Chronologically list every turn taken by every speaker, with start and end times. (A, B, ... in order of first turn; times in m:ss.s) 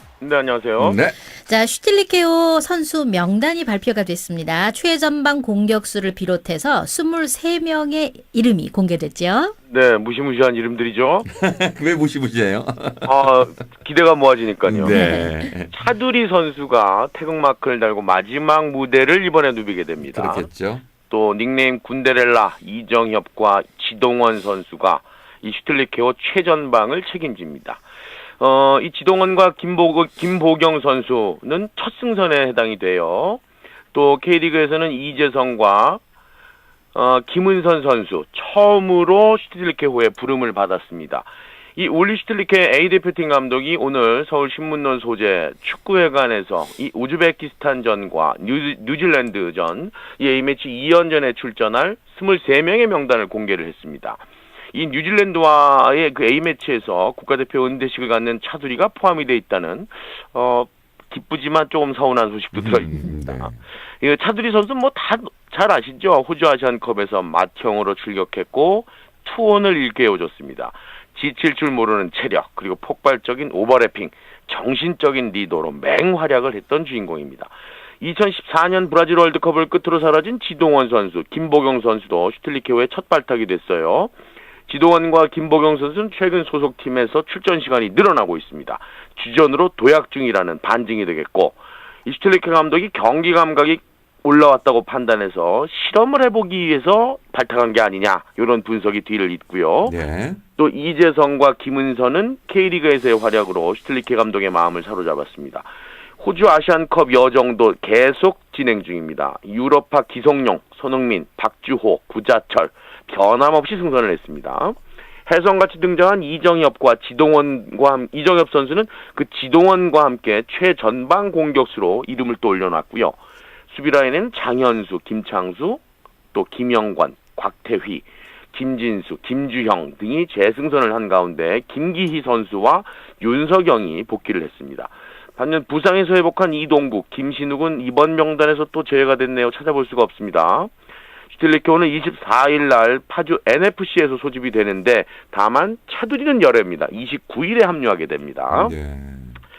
0:00.2-0:01.0 A
0:00.8-0:01.2 B
0:01.4-0:09.5 C
0:09.7-0:11.3 A
0:11.3-0:13.3 B
0:13.0-0:15.0 A
0:14.6-0:15.7 B
0:14.8-0:15.4 C
0:15.7-0:20.4 A
0:20.1-0:20.8 B
0:21.1-0:27.8 A
0:28.4-0:33.4 A
0:33.9-0:36.0 A
0:36.9-1:24.1 A
1:02.5-1:03.5 B
1:24.7-1:39.9 A
1:39.8-1:40.4 B
1:40.6-1:45.7 A
1:46.2-2:03.2 A
2:03.7-2:05.8 A
2:06.3-2:20.7 A
2:21.3-2:28.7 A
2:28.5-2:29.4 B